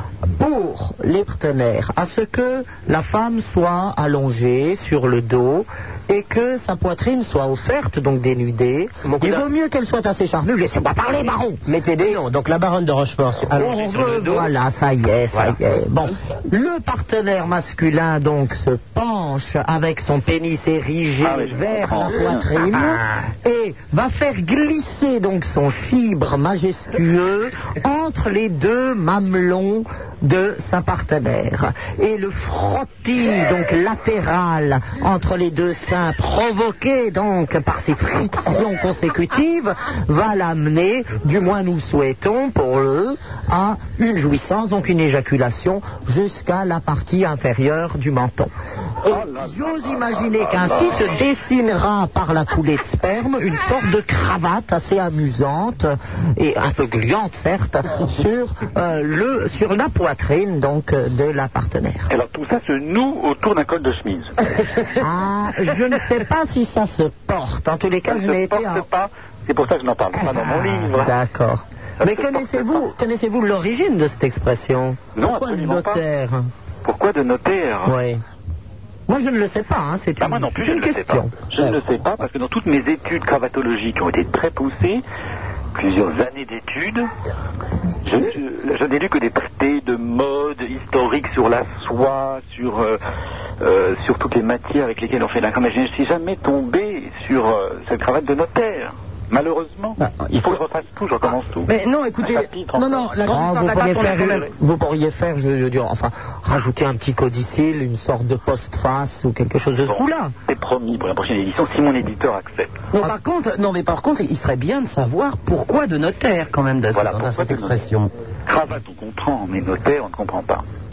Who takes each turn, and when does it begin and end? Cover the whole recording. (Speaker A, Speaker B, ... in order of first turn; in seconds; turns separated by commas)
Speaker A: 0.4-11.6, Speaker B: 9.0-9.5, Speaker B: 11.7-14.5, Speaker A: 13.5-48.5, Speaker C: 21.2-22.5, Speaker A: 49.0-62.1, Speaker C: 49.1-51.3, Speaker C: 62.1-64.3, Speaker A: 65.0-68.9, Speaker C: 68.1-71.1, Speaker A: 70.1-76.5, Speaker C: 72.0-72.8, Speaker C: 75.2-76.0, Speaker C: 76.8-78.0, Speaker A: 77.9-78.2, Speaker A: 79.1-81.3, Speaker C: 80.2-85.0, Speaker C: 85.8-87.1, Speaker C: 88.0-93.0, Speaker C: 93.6-103.2, Speaker D: 100.0-100.6, Speaker D: 101.7-104.5, Speaker A: 103.3-110.3, Speaker C: 103.9-104.5, Speaker C: 109.9-112.8, Speaker D: 112.9-118.1, Speaker C: 116.9-117.8, Speaker C: 118.5-120.6